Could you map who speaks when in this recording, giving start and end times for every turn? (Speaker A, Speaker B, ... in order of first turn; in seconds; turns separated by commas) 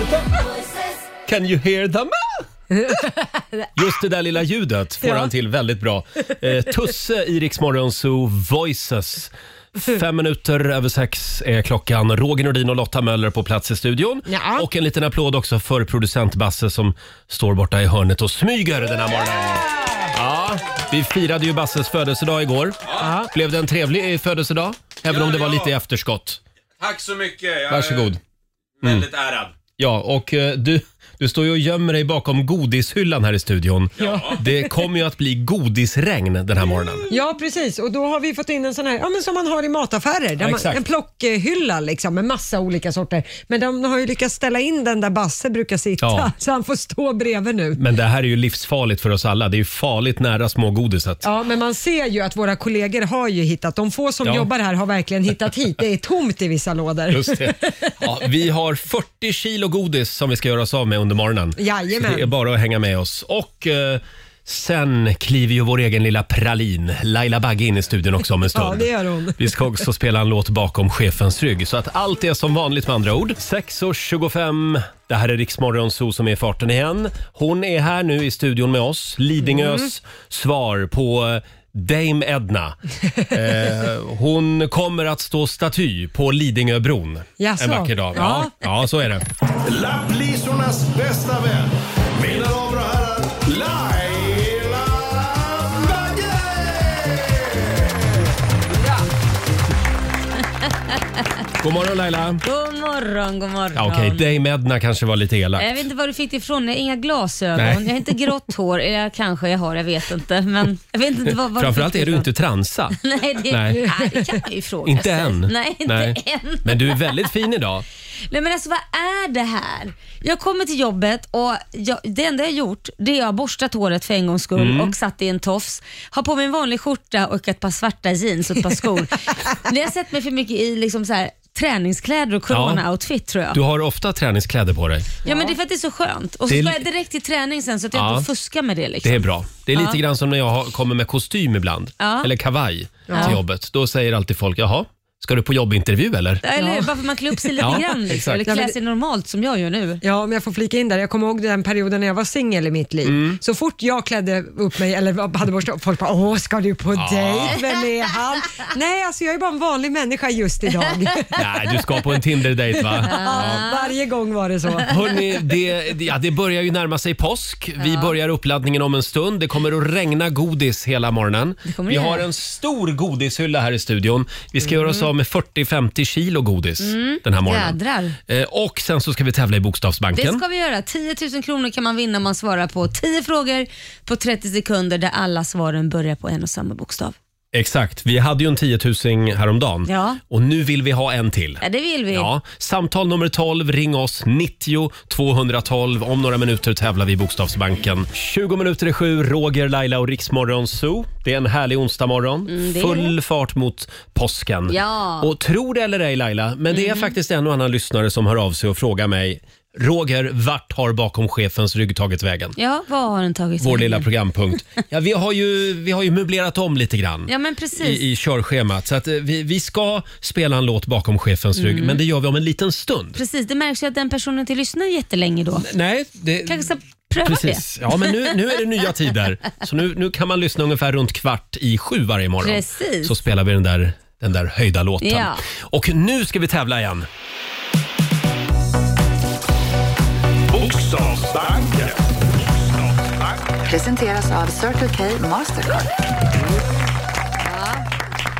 Speaker A: 1.2-2.4, Speaker B: 2.7-3.7, Speaker A: 3.7-26.4, Speaker B: 5.0-5.3, Speaker B: 14.3-14.7, Speaker B: 23.0-23.3, Speaker C: 25.1-25.7, Speaker C: 26.8-28.1, Speaker A: 27.7-28.2, Speaker C: 28.8-29.5, Speaker A: 29.8-37.0, Speaker C: 34.0-34.4, Speaker B: 34.0-34.4, Speaker B: 37.1-47.8, Speaker A: 40.4-40.8, Speaker A: 46.0-46.3, Speaker A: 47.7-51.2, Speaker B: 51.2-57.7, Speaker A: 54.2-54.5, Speaker A: 57.1-82.8, Speaker B: 61.6-62.3, Speaker B: 68.5-69.6, Speaker B: 79.5-79.8, Speaker A: 83.3-89.2, Speaker B: 87.4-88.5, Speaker D: 89.6-98.2, Speaker A: 101.6-102.4, Speaker E: 102.4-104.2, Speaker A: 103.7-105.8, Speaker E: 105.6-112.3, Speaker A: 107.5-107.9, Speaker A: 111.2-113.9, Speaker E: 113.0-117.2, Speaker A: 114.8-117.8, Speaker E: 118.3-133.6, Speaker A: 124.5-125.0, Speaker A: 132.5-132.8, Speaker A: 133.5-135.1, Speaker E: 135.2-139.2, Speaker B: 135.2-135.5, Speaker A: 136.5-136.9, Speaker A: 137.9-138.3, Speaker A: 139.0-146.4, Speaker E: 142.0-142.3, Speaker B: 143.1-143.4, Speaker E: 143.1-143.4, Speaker E: 146.4-150.0, Speaker B: 146.6-147.8, Speaker A: 147.6-148.4, Speaker B: 148.4-148.7, Speaker B: 150.0-162.2, Speaker A: 153.0-153.4, Speaker A: 156.9-157.6, Speaker A: 161.3-163.6, Speaker B: 162.8-165.1, Speaker E: 163.0-163.9, Speaker A: 164.8-180.4, Speaker E: 167.8-168.1, Speaker E: 171.7-172.2, Speaker E: 176.8-178.2, Speaker E: 180.1-187.2, Speaker A: 187.5-212.6, Speaker E: 189.8-190.2, Speaker E: 191.6-192.3, Speaker E: 202.5-203.1, Speaker E: 204.7-205.3, Speaker E: 206.7-207.1, Speaker E: 212.6-214.1, Speaker A: 213.6-223.2, Speaker E: 217.3-218.0, Speaker E: 221.6-222.0, Speaker E: 223.1-225.7, Speaker A: 225.6-237.1, Speaker E: 226.4-228.3, Speaker E: 232.4-233.1, Speaker E: 235.0-235.4, Speaker D: 240.5-243.4, Speaker F: 243.6-245.9, Speaker E: 247.4-247.8